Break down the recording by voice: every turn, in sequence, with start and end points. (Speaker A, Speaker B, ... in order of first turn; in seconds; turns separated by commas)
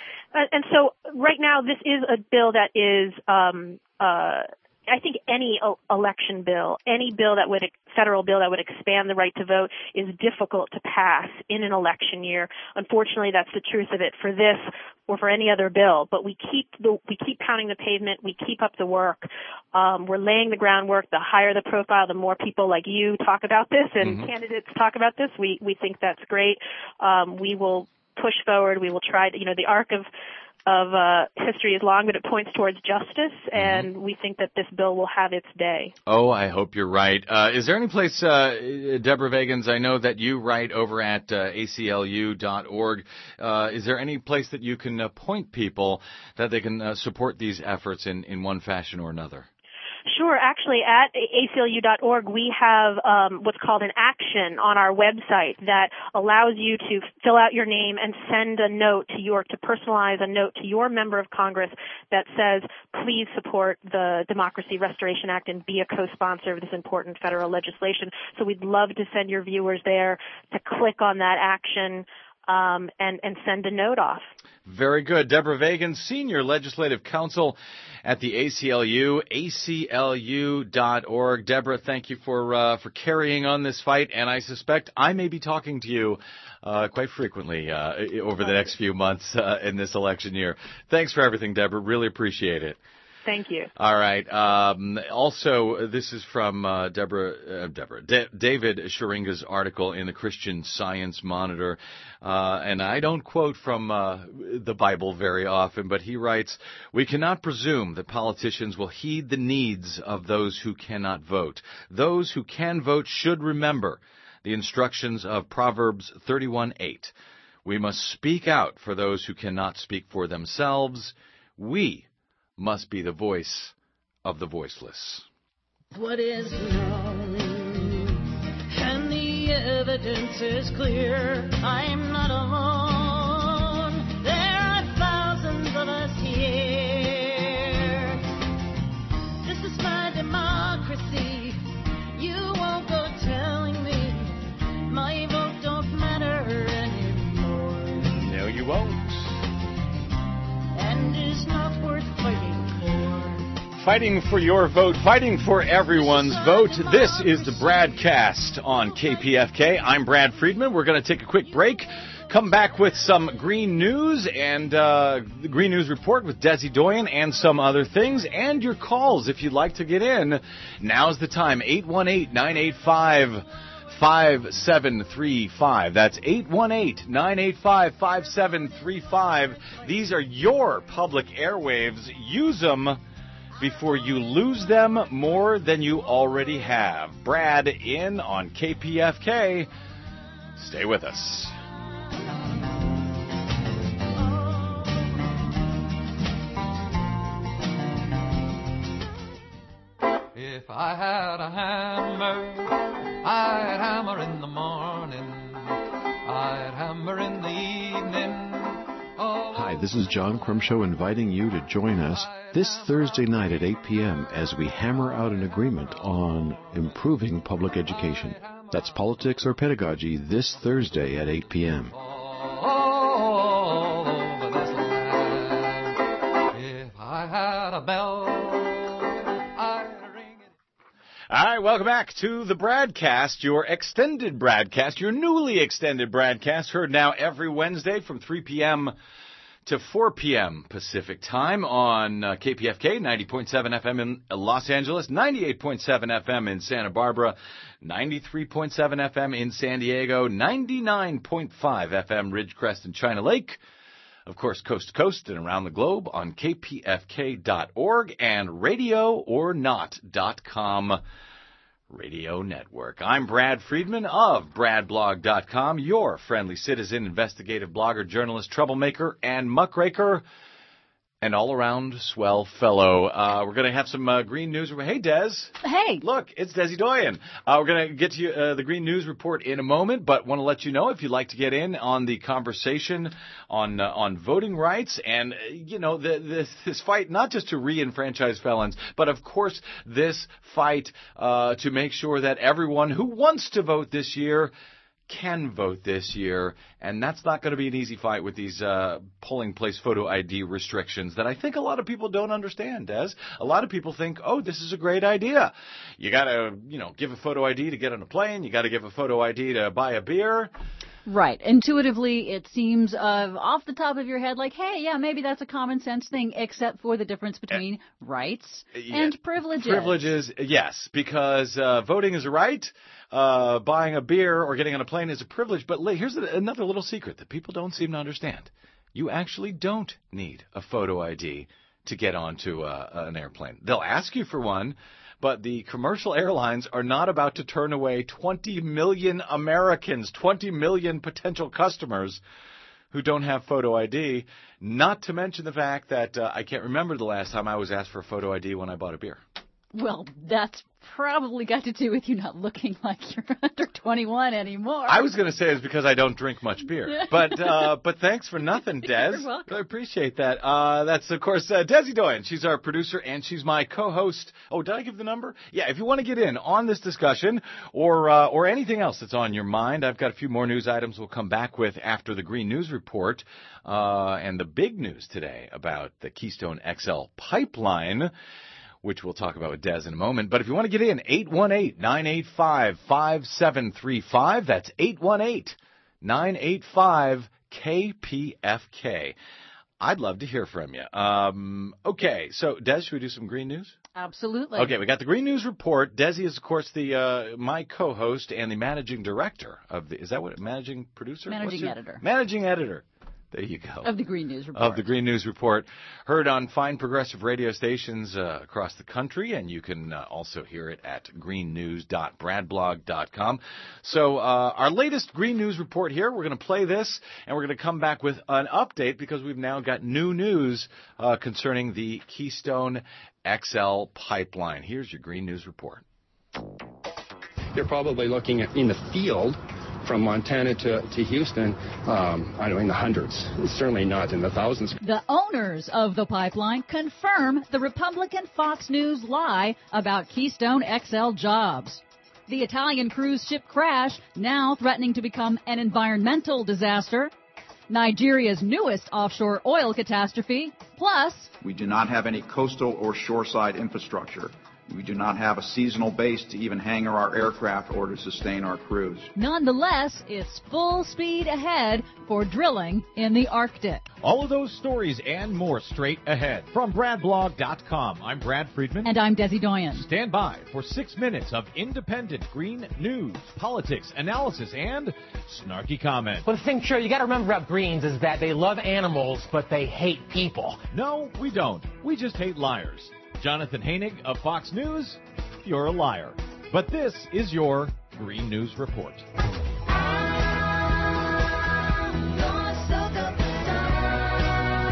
Speaker A: 0.3-30.1, Speaker B: 24.0-24.3, Speaker A: 30.6-35.9, Speaker B: 33.5-33.9, Speaker B: 36.0-49.5, Speaker A: 50.1-74.3, Speaker B: 74.6-92.8, Speaker A: 93.2-93.7, Speaker B: 93.8-117.1, Speaker B: 117.6-125.3, Speaker C: 125.9-138.2, Speaker C: 139.4-141.6, Speaker C: 142.1-148.1, Speaker B: 148.2-149.3, Speaker C: 150.7-153.4, Speaker B: 153.8-183.0, Speaker C: 155.9-158.0, Speaker B: 183.6-189.7, Speaker B: 190.6-191.5, Speaker D: 200.3-210.2, Speaker E: 209.5-221.9, Speaker D: 212.1-213.3, Speaker D: 216.6-217.1, Speaker D: 217.8-219.0, Speaker D: 221.9-230.5, Speaker B: 231.3-238.9, Speaker B: 239.6-253.6, Speaker B: 254.2-261.0, Speaker B: 261.9-270.2, Speaker B: 271.2-294.5, Speaker F: 275.6-276.0, Speaker B: 295.1-310.5, Speaker F: 311.1-320.1, Speaker B: 318.7-342.2, Speaker B: 342.9-349.2, Speaker F: 349.7-355.1, Speaker B: 354.9-378.1, Speaker F: 356.9-357.7, Speaker F: 358.8-359.6, Speaker B: 378.8-389.1, Speaker B: 389.8-393.8, Speaker F: 393.9-394.8, Speaker B: 394.6-403.9, Speaker F: 401.3-402.0, Speaker F: 403.8-404.8, Speaker B: 404.5-425.8, Speaker G: 427.5-434.8, Speaker F: 434.8-447.1, Speaker F: 447.7-451.3, Speaker H: 451.4-459.1, Speaker F: 459.1-463.8, Speaker B: 464.0-468.9, Speaker F: 468.8-469.9, Speaker B: 469.7-476.2, Speaker I: 476.3-480.5, Speaker B: 480.5-489.1, Speaker C: 492.3-492.9